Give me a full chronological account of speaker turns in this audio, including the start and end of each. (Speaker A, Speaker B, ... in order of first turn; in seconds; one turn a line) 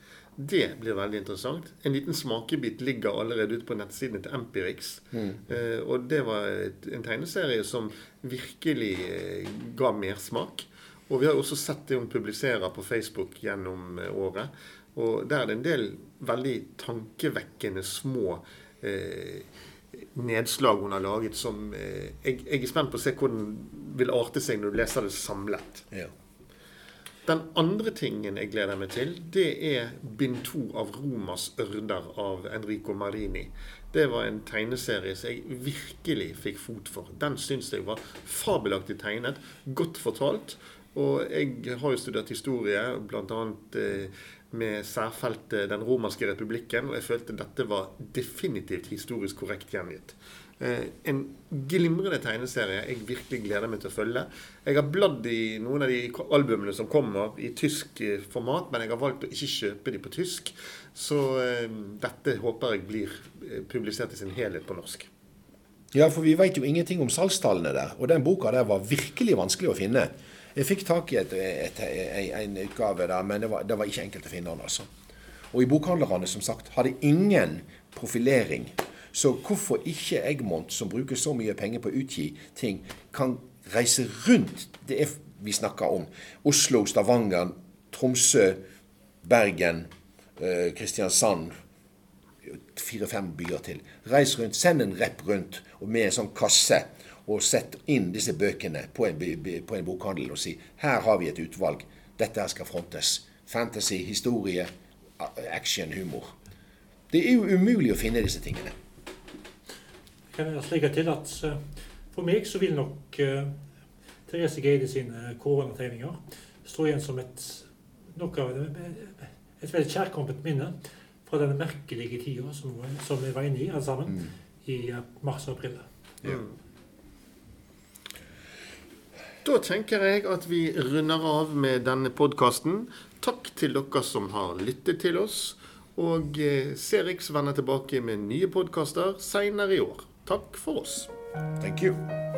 Speaker A: 0.4-25.9
Speaker B: 5.1-5.4
Speaker A: 27.2-65.1
Speaker B: 65.9-74.9
Speaker B: 75.5-88.6
Speaker B: 89.2-91.5
Speaker B: 92.4-106.3
Speaker B: 107.1-108.7
Speaker C: 110.3-111.6
Speaker C: 112.1-113.5
Speaker C: 114.3-125.8
Speaker A: 126.2-126.5
Speaker A: 129.4-141.1
Speaker B: 141.6-142.0